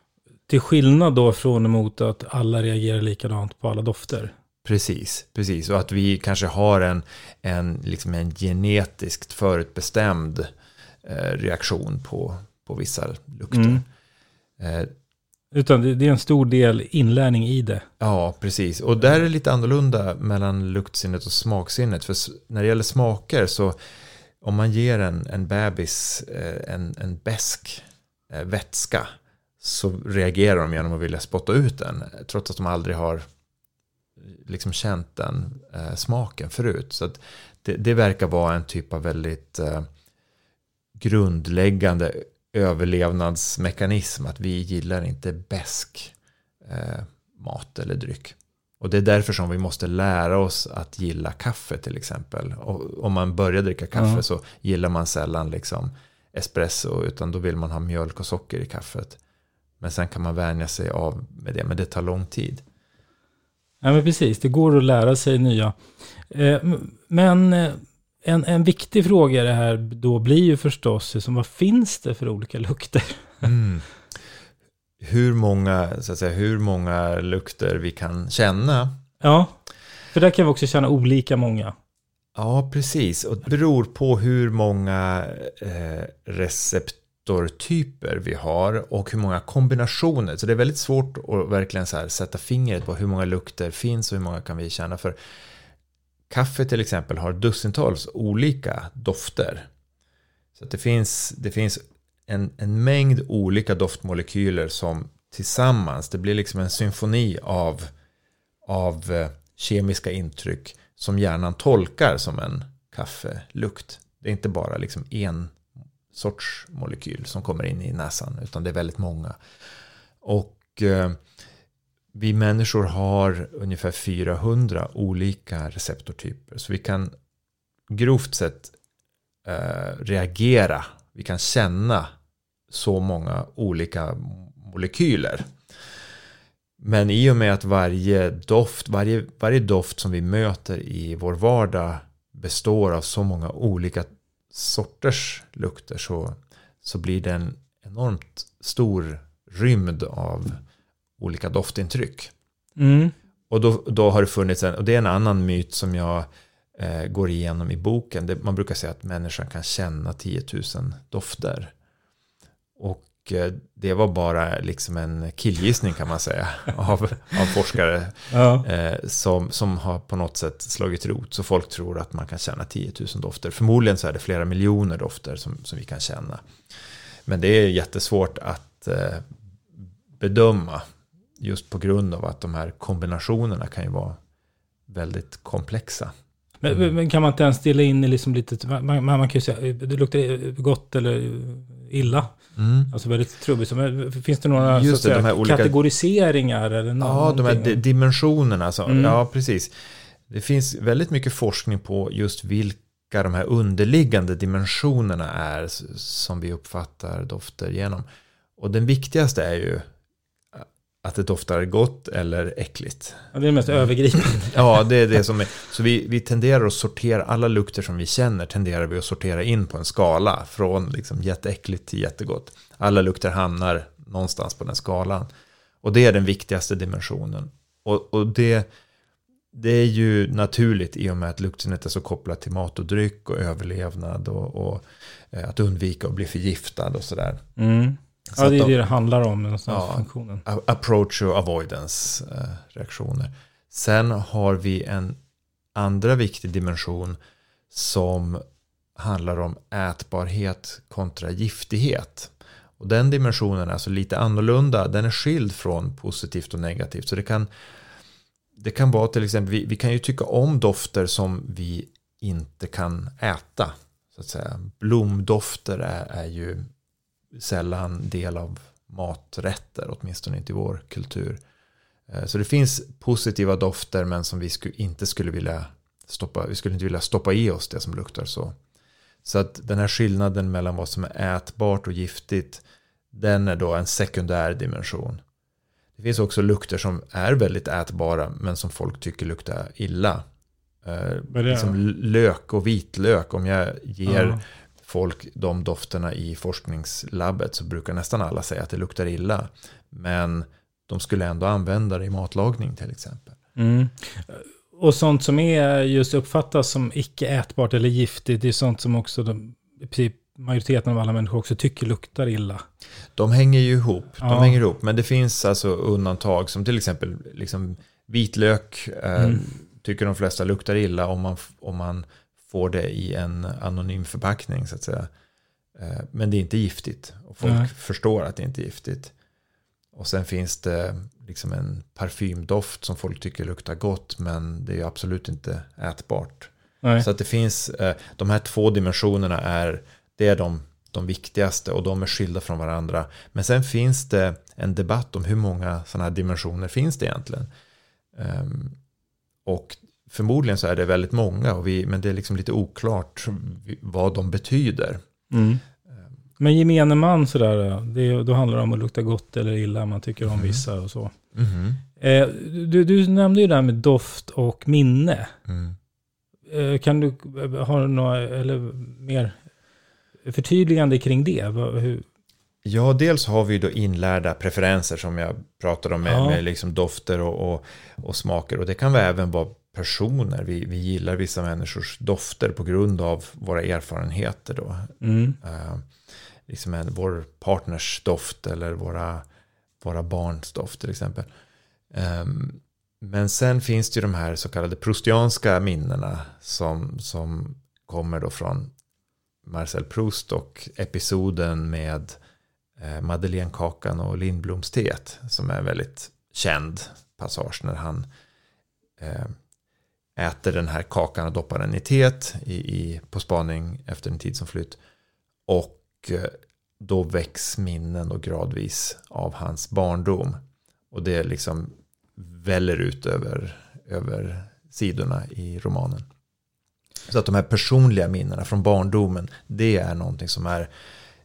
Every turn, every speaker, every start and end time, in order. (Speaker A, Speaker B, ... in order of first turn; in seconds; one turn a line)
Speaker A: 0.5-4.3
Speaker B: 4.6-10.5
Speaker B: 11.0-13.8
Speaker A: 13.5-13.8
Speaker B: 14.6-14.9
Speaker A: 15.5-17.9
Speaker B: 18.0-23.8
Speaker B: 24.4-33.3
Speaker B: 34.2-39.9
Speaker B: 41.0-59.2
Speaker A: 54.0-54.2
Speaker B: 59.8-62.6
Speaker A: 63.8-73.5
Speaker B: 73.4-73.9
Speaker B: 75.0-79.0
Speaker A: 79.2-79.6
Speaker A: 80.1-81.8
Speaker B: 82.3-95.2
Speaker B: 96.3-99.7
Speaker B: 100.6-107.9
Speaker B: 108.7-115.6
Speaker B: 116.1-119.4
Speaker B: 120.2-121.2
Speaker B: 122.1-127.1
Speaker B: 127.9-128.8
Speaker B: 129.4-132.1
Speaker B: 132.7-135.5
Speaker B: 136.8-150.6
Speaker B: 151.2-152.3
Speaker A: 152.8-153.1
Speaker B: 153.5-161.7
Speaker B: 162.8-176.4
Speaker A: 168.3-168.7
Speaker B: 177.3-180.8
Speaker B: 181.4-184.2
Speaker B: 184.9-186.1
Speaker A: 186.6-192.3
Speaker B: 192.6-192.9
Speaker A: 192.9-197.8
Speaker B: 194.6-195.8
Speaker B: 197.0-199.7
Speaker A: 198.9-199.2
Speaker B: 200.3-208.1
Speaker B: 208.6-209.9
Speaker B: 210.5-225.3
Speaker A: 213.3-214.7
Speaker B: 225.8-228.7
Speaker B: 229.5-237.4
Speaker A: 237.6-240.4
Speaker B: 238.3-238.8
Speaker B: 239.7-245.2
Speaker B: 245.8-247.2
Speaker B: 247.7-248.4
Speaker B: 249.0-257.5
Speaker B: 258.6-266.6
Speaker B: 267.3-271.4
Speaker B: 272.1-278.6
Speaker B: 279.2-285.2
Speaker B: 286.0-290.2
Speaker B: 290.8-303.4
Speaker A: 291.3-291.8
Speaker A: 294.1-294.4
Speaker A: 303.6-312.6
Speaker B: 313.2-325.1
Speaker A: 314.2-314.6
Speaker A: 319.2-319.4
Speaker B: 325.8-329.1
Speaker A: 327.4-327.7
Speaker B: 329.9-347.5
Speaker B: 348.1-348.8
Speaker B: 349.4-355.0
Speaker A: 355.3-355.6
Speaker A: 356.4-361.1
Speaker B: 360.3-360.6
Speaker B: 361.4-361.8
Speaker A: 362.0-365.3
Speaker B: 365.5-365.8
Speaker A: 366.5-369.4
Speaker A: 370.2-372.0
Speaker B: 372.6-385.9
Speaker A: 376.1-376.4
Speaker A: 385.0-385.4
Speaker B: 386.5-389.3
Speaker B: 389.8-391.3
Speaker B: 391.9-398.7
Speaker B: 399.4-402.2
Speaker B: 402.8-408.1
Speaker B: 409.0-409.4
Speaker B: 410.2-414.8
Speaker B: 415.5-420.4
Speaker B: 420.9-426.1
Speaker B: 427.1-430.7